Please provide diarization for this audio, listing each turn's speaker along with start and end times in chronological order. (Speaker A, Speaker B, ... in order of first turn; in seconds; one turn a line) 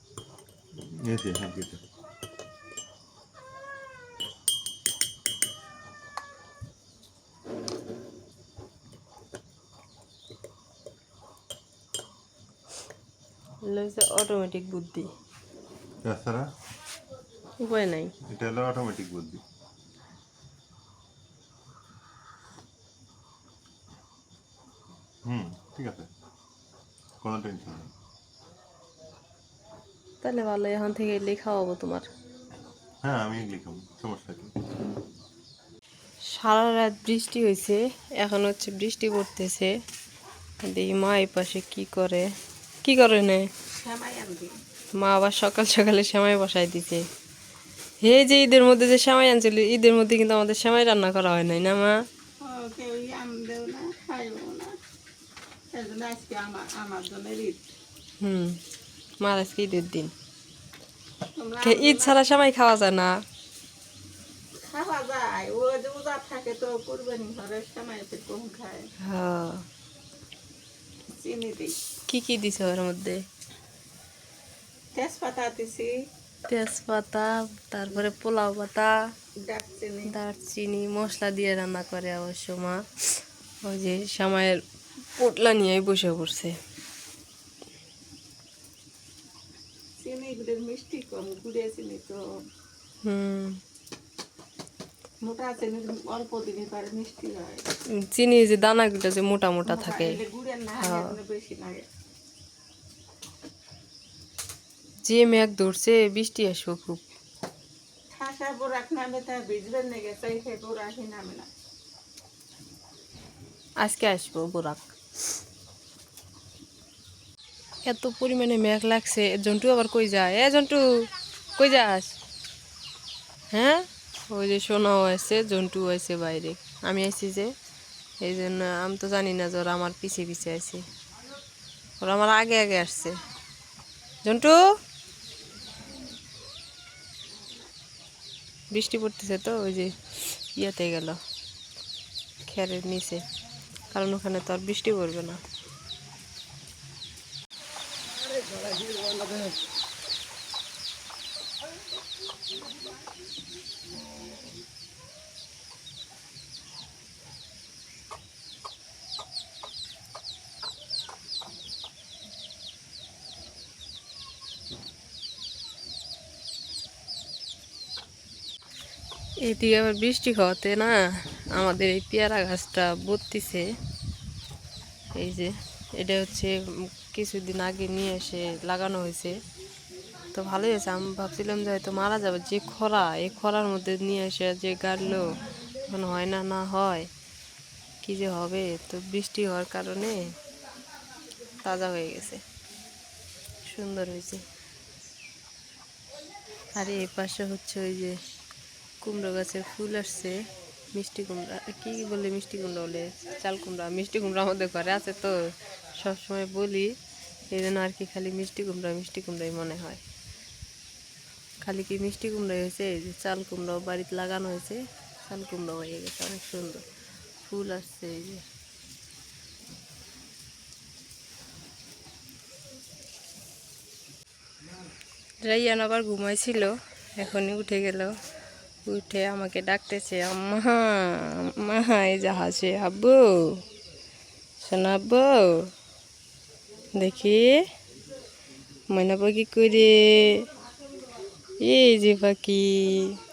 Speaker A: 0.8-1.8
Speaker B: 13.6-15.1
Speaker A: 16.0-16.5
Speaker B: 17.6-18.1
Speaker A: 18.2-19.4
Speaker A: 25.2-26.1
Speaker A: 27.2-27.9
Speaker B: 30.2-32.1
Speaker A: 33.0-34.5
Speaker B: 36.3-39.7
Speaker B: 40.6-42.3
Speaker B: 42.8-43.5
Speaker C: 43.8-44.5
Speaker B: 45.0-47.0
Speaker B: 48.0-52.0
Speaker C: 52.4-54.8
Speaker C: 55.7-57.7
Speaker B: 58.2-58.6
Speaker B: 59.2-60.1
Speaker C: 61.4-62.2
Speaker B: 61.6-63.2
Speaker C: 64.7-68.9
Speaker B: 69.0-69.6
Speaker C: 71.1-71.8
Speaker B: 72.1-73.2
Speaker C: 75.0-75.9
Speaker B: 76.5-79.0
Speaker C: 79.4-80.1
Speaker B: 80.1-82.8
Speaker B: 83.6-84.6
Speaker B: 85.2-86.6
Speaker C: 90.0-92.2
Speaker B: 93.0-93.6
Speaker C: 95.2-97.6
Speaker B: 98.1-100.2
Speaker C: 99.7-101.8
Speaker B: 100.8-101.1
Speaker B: 105.0-107.0
Speaker C: 108.1-111.5
Speaker B: 113.8-114.9
Speaker B: 117.8-120.8
Speaker B: 121.5-122.2
Speaker B: 123.5-127.5
Speaker B: 128.2-130.8
Speaker B: 132.0-133.2
Speaker B: 134.2-134.6
Speaker B: 138.7-139.9
Speaker B: 140.5-141.2
Speaker B: 142.5-143.2
Speaker B: 143.9-145.4
Speaker B: 169.4-171.0
Speaker B: 171.5-173.7
Speaker B: 175.1-179.4
Speaker B: 180.3-187.1
Speaker B: 188.0-190.3
Speaker B: 191.6-192.4
Speaker B: 193.6-194.4
Speaker B: 196.8-198.2
Speaker B: 199.0-200.4
Speaker B: 200.9-205.3
Speaker B: 205.9-206.9
Speaker B: 207.5-210.0
Speaker B: 211.6-216.8
Speaker B: 217.4-218.4
Speaker B: 225.4-228.1
Speaker B: 228.8-233.6
Speaker B: 234.6-235.7
Speaker B: 236.9-237.6
Speaker B: 238.9-240.5
Speaker B: 241.6-243.2